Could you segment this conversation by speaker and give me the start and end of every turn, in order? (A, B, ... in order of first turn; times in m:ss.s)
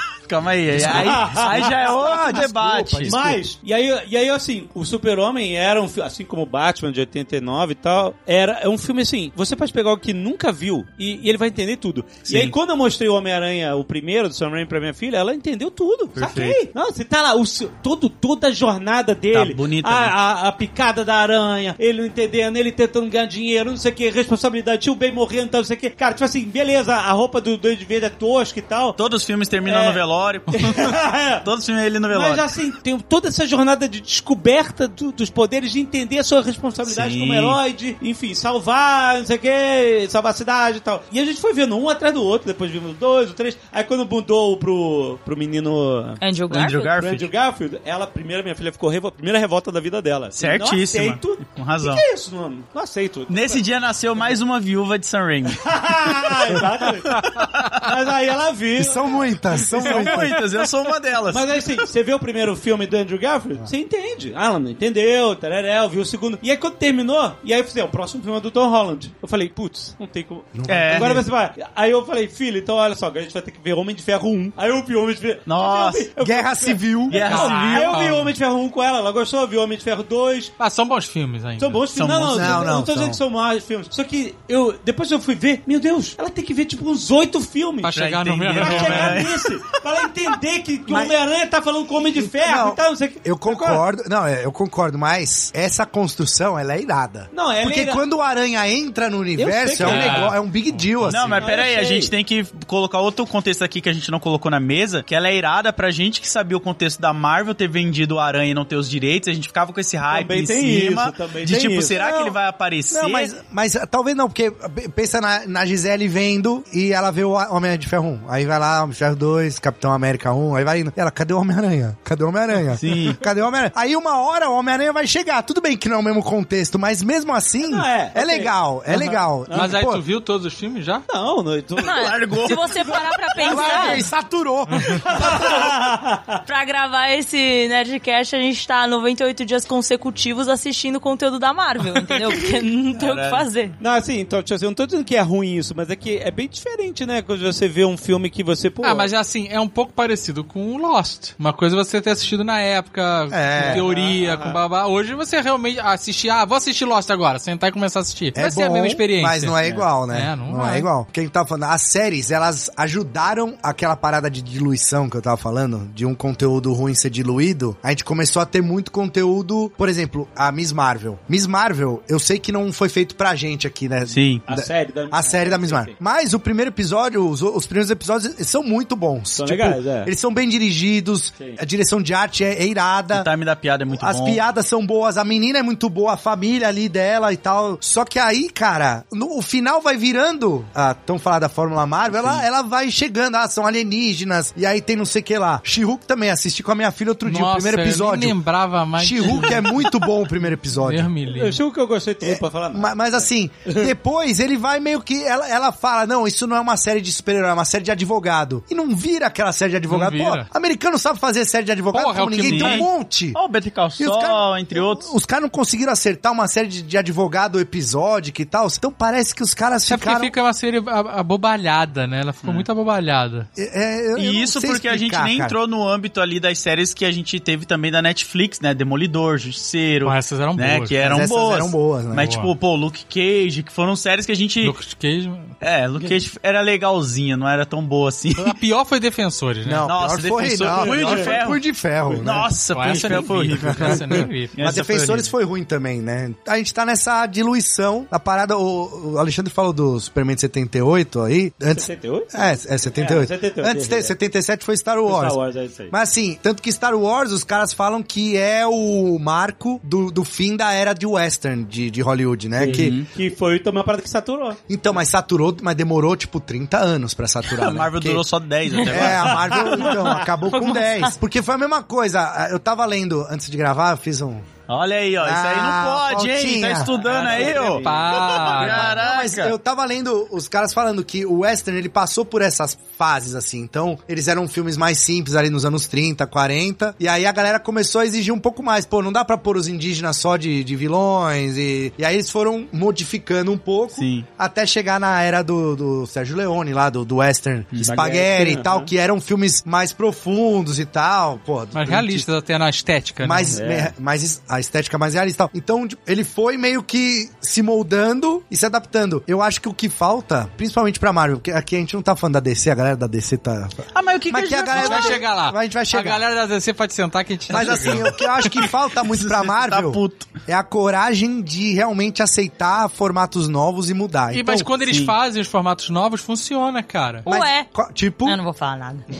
0:00.3-0:03.3 A
0:00.7-0:03.4 B
0:00.7-0:29.0 C
0:12.2-0:12.5 A
0:16.1-0:16.6 A
0:19.3-0:20.1 A
0:29.0-0:30.5 A
0:29.6-0:30.0 C
0:30.5-0:31.4 C
0:31.4-0:32.5 A
0:32.1-0:46.2 C
0:36.8-0:37.6 A
0:46.2-0:46.9 D
0:46.5-0:47.3 A
0:46.9-0:53.6 C
0:50.3-0:52.0 A
0:53.3-0:55.6 A
0:55.6-0:57.2 C
0:57.1-0:57.9 A
0:57.8-1:00.2 C
0:58.8-1:00.4 B
0:59.8-1:01.6 A
1:01.3-1:20.5 C
1:10.5-1:11.2 B
1:10.7-1:11.2 A
1:15.4-1:16.1 A
1:16.2-1:17.3 B
1:17.1-1:18.0 A
1:17.2-1:18.3 E
1:20.6-1:21.8 E
1:21.6-1:27.9 C
1:21.9-1:22.7 A
1:22.3-1:23.2 B
1:27.8-1:29.2 E
1:27.9-1:29.4 A
1:28.5-1:33.8 C
1:32.3-1:41.4 B
1:37.3-1:38.0 C
1:39.4-1:40.3 C
1:39.8-1:40.3 A
1:39.8-1:41.4 E
1:41.0-1:53.4 A
1:41.3-1:42.1 C
1:50.1-1:52.0 C
1:51.9-1:52.4 B
1:52.9-2:10.0 B
2:02.8-2:03.2 A
2:07.6-2:09.7 C
2:09.5-2:11.0 E
2:11.1-2:14.1 C
2:11.8-2:14.1 D
2:12.0-2:12.8 A
2:13.4-2:15.6 B
2:14.8-2:16.4 C
2:15.2-2:15.7 D
2:16.4-2:23.8 D
2:23.0-2:23.4 A
2:23.8-2:29.1 C
2:28.8-2:40.9 E
2:33.3-2:33.9 B
2:33.6-2:34.6 C
2:38.3-3:03.3 B
2:54.1-2:54.5 A
2:54.5-2:56.0 C
2:59.3-3:00.1 C
3:03.1-3:04.4 A
3:03.9-3:18.4 B
3:12.1-3:12.4 A
3:17.2-3:19.9 E
3:19.0-3:21.1 B
3:20.7-3:21.6 E
3:21.2-3:23.9 C
3:22.2-3:33.4 B
3:29.9-3:30.5 E
3:31.9-3:32.8 E
3:32.4-3:35.1 A
3:34.0-3:40.3 B
3:39.9-3:43.5 E
3:43.6-3:45.5 B
3:44.1-3:54.8 A
3:50.0-3:51.1 E
3:51.0-3:52.3 B
3:52.2-3:52.5 E
3:54.6-3:55.5 E
3:55.6-3:58.5 A
3:58.4-3:59.9 E
3:59.6-4:15.4 B
3:59.8-4:05.3 A
4:00.6-4:01.4 C
4:02.7-4:04.6 E
4:11.7-4:14.1 C
4:15.0-4:15.9 C
4:15.9-4:23.0 B
4:22.6-4:24.6 C
4:22.6-4:23.1 A
4:24.7-4:28.2 B
4:27.4-4:29.8 A
4:28.8-4:34.5 B
4:29.2-4:30.2 C
4:30.4-4:31.2 D
4:34.7-4:39.6 A
4:35.2-4:37.6 B
4:36.9-4:38.9 C
4:37.8-4:39.0 E
4:38.6-5:02.3 B
4:53.9-4:54.3 A
4:57.8-4:58.9 C
5:01.7-5:03.6 E
5:03.2-5:16.2 B
5:03.5-5:03.9 C
5:13.9-5:15.3 A
5:14.7-5:18.5 E
5:17.5-5:24.7 B
5:17.5-5:18.0 A
5:19.1-5:20.4 A
5:24.3-5:27.3 E
5:24.7-5:25.2 A
5:27.2-5:27.7 D
5:27.2-5:28.4 B
5:28.2-5:29.0 D